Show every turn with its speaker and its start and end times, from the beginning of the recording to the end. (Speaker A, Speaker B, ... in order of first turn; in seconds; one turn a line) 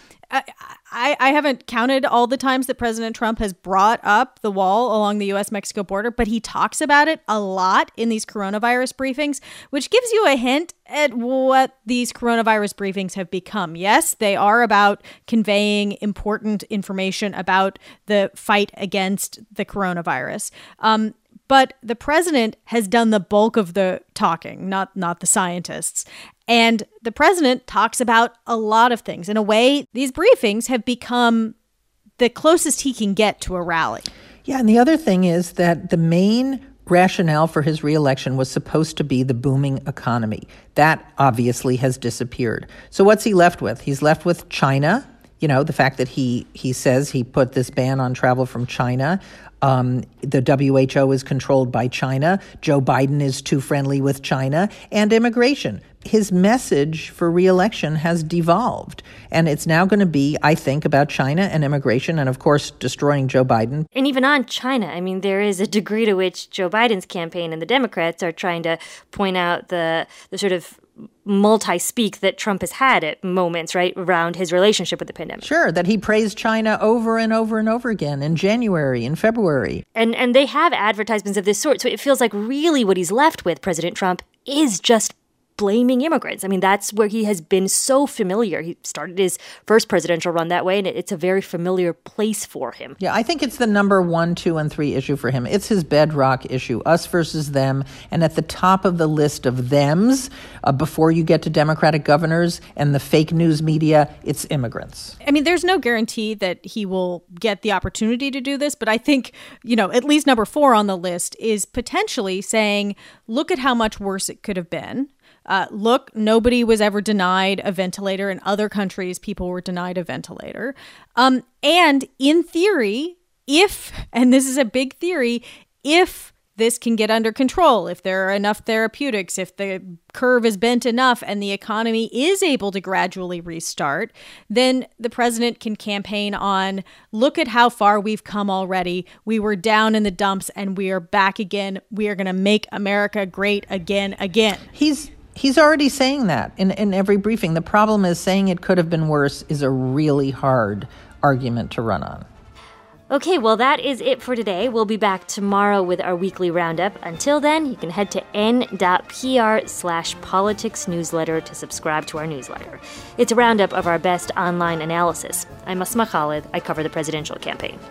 Speaker A: 0.3-31.6
Speaker A: 32.2-34.1
Speaker B: 34.5-63.9
Speaker C: 63.9-75.5
Speaker B: 75.4-79.8
Speaker C: 80.0-93.0
Speaker B: 93.0-105.2
Speaker A: 105.2-144.6
Speaker B: 144.7-152.3
Speaker C: 153.1-167.8